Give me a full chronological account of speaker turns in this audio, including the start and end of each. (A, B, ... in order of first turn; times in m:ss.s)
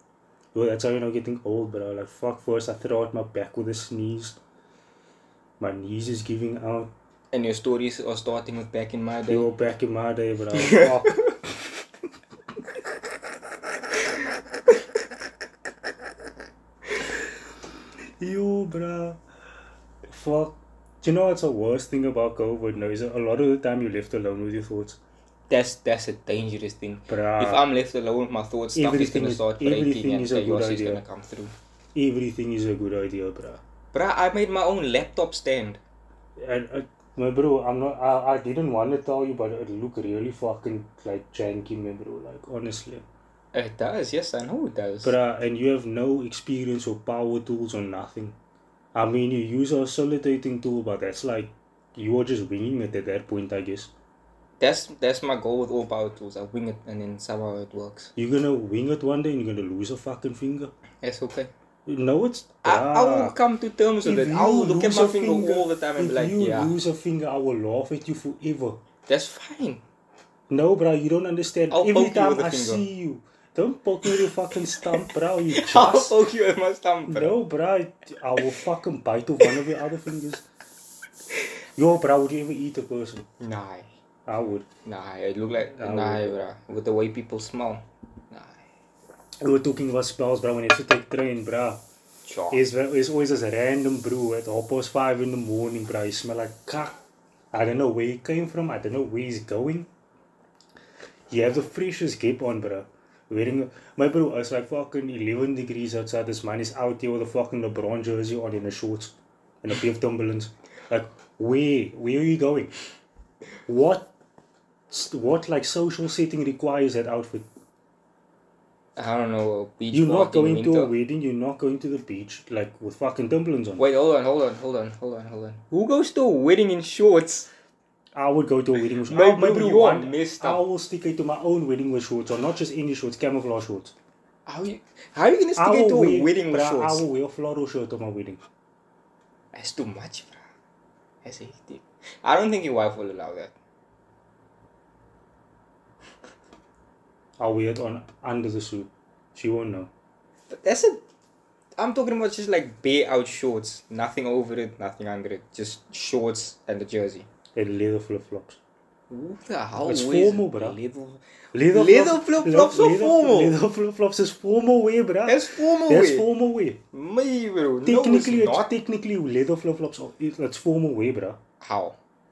0:00.5-0:04.4 A
0:05.6-0:06.9 A
0:07.3-0:09.5 B
0:09.3-0:11.3 A
0:10.5-0:11.2 B
0:18.2-0:19.2 A
0:20.1-0:25.0 A
0:25.5-0:31.5 B
0:27.1-0:27.7 A
0:28.7-0:31.0 A
0:31.9-0:33.6 A
0:33.9-0:35.8 B
0:36.4-0:43.0 A
0:43.5-0:45.2 B
0:45.0-0:48.4 A
0:48.9-0:53.9 A
0:54.6-0:58.1 B
0:58.2-1:00.7 A
1:01.0-1:01.5 B
1:01.8-1:03.4 A
1:02.6-1:06.8 B
1:04.0-1:08.8 A
1:09.1-1:09.8 B
1:10.5-1:16.2 A
1:11.7-1:12.9 B
1:15.5-1:17.4 B
1:17.1-1:20.4 A
1:21.8-1:23.3 A
1:23.4-1:23.9 B
1:24.2-1:24.7 A
1:24.8-1:28.6 B
1:25.6-1:26.5 A
1:29.4-1:31.8 A
1:32.2-1:32.6 B
1:32.5-1:37.0 A
1:37.5-1:39.9 A
1:41.3-1:52.7 A
1:53.7-1:54.1 A
1:54.9-1:57.5 A
1:59.0-2:00.9 B
1:59.9-2:03.8 A
2:03.8-2:07.5 B
2:08.1-2:13.9 A
2:09.0-2:10.7 B
2:14.4-2:17.0 B
2:15.6-2:18.4 A
2:19.5-2:20.4 B
2:21.2-2:23.5 B
2:27.4-2:29.9 A
2:30.5-2:31.0 B
2:31.8-2:37.3 B
2:37.6-2:38.6 A
2:39.1-2:43.6 B
2:39.8-2:40.8 A
2:41.5-2:46.8 A
2:45.2-2:46.3 B
2:46.9-2:48.7 B
2:47.8-2:51.4 A
2:51.6-2:52.0 B